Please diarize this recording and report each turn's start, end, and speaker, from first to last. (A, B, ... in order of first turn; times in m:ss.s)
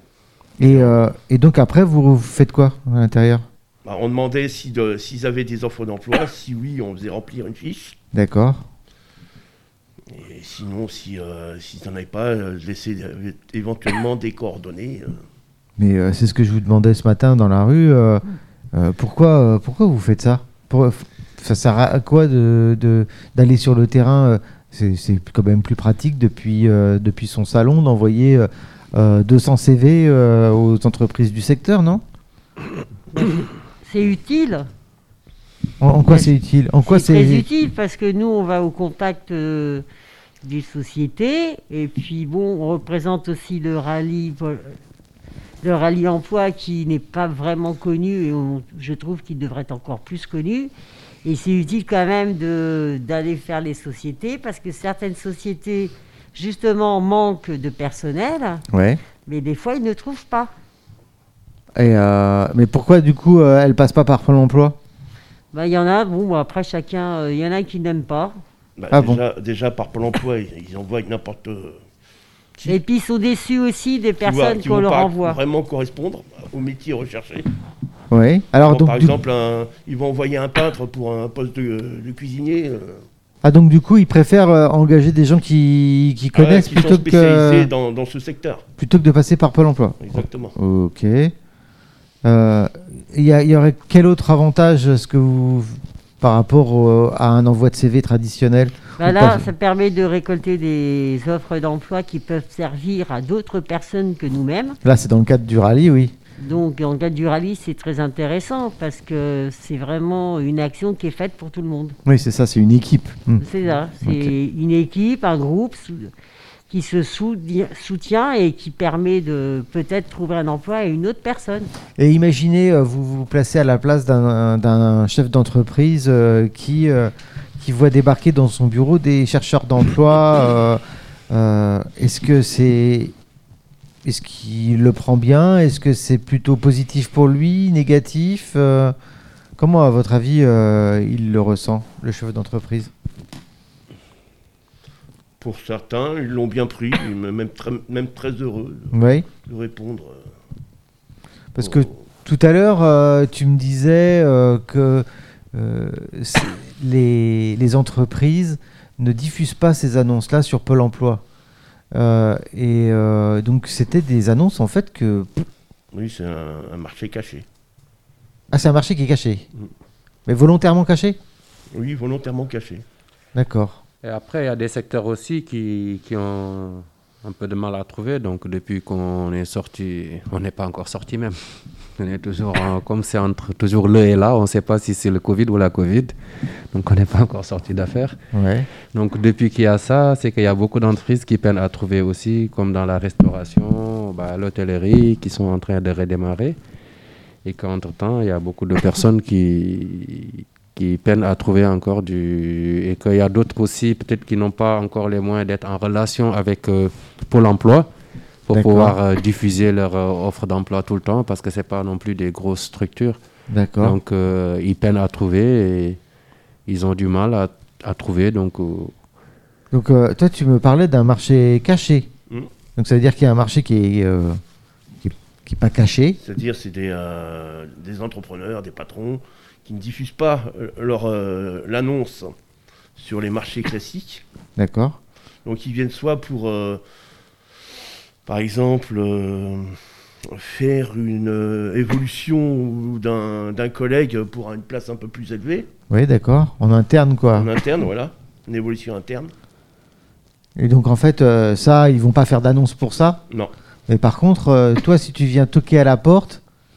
0:00.6-0:03.4 A
0:00.7-0:01.0 B
0:03.8-0:08.0 B
0:08.1-0:08.7 A
0:10.1-0:15.2 B
0:15.8-0:18.2 A
0:18.7-0:32.0 A
0:33.1-0:34.7 C
0:35.8-0:37.5 A
0:36.8-0:39.8 C
0:40.4-0:44.8 C
0:45.6-0:50.7 C
0:51.2-0:58.6 C
0:58.7-0:59.0 A
0:59.3-1:00.5 C
1:01.8-1:04.8 A
1:05.5-1:08.4 C
1:08.8-1:11.8 B
1:08.9-1:09.2 A
1:12.7-1:15.4 C
1:14.2-1:17.5 B
1:18.1-1:19.2 A
1:18.6-1:23.0 B
1:23.4-1:27.7 A
1:26.4-1:28.6 B
1:28.8-1:31.3 A
1:30.0-1:30.6 B
1:32.2-1:39.5 A
1:39.0-1:44.8 C
1:44.8-1:46.1 A
1:46.4-1:52.0 C
1:52.1-1:53.4 A
1:53.4-1:56.1 C
1:54.0-1:54.3 A
1:56.7-2:01.7 C
2:02.0-2:13.1 A
2:14.0-2:19.0 A
2:19.6-2:22.9 A
2:25.4-2:28.9 B
2:28.9-2:29.3 A
2:29.4-2:30.2 B
2:31.5-2:41.2 A
2:31.6-2:32.0 B
2:41.9-2:45.4 A
2:45.9-2:47.5 B
2:48.5-2:49.4 A
2:50.3-2:51.2 A
2:51.7-2:52.8 B
2:53.4-2:53.8 A
2:54.0-3:01.4 D
3:02.0-3:06.2 D
3:06.7-3:08.2 D
3:08.3-3:08.7 A
3:08.9-3:16.6 D
3:17.4-3:27.9 D
3:28.5-3:33.2 D
3:28.5-3:29.0 A
3:33.5-3:34.0 A
3:33.8-3:36.0 D
3:36.7-3:38.9 D
3:39.7-3:42.1 A
3:42.8-3:44.4 A
3:45.0-3:46.2 A
3:46.2-3:52.3 B
3:53.0-3:54.2 B
3:54.6-3:55.0 A
3:55.4-3:56.8 B
3:58.3-4:05.7 B
4:05.9-4:07.5 A
4:07.3-4:09.3 B
4:10.6-4:13.2 A
4:13.9-4:16.4 A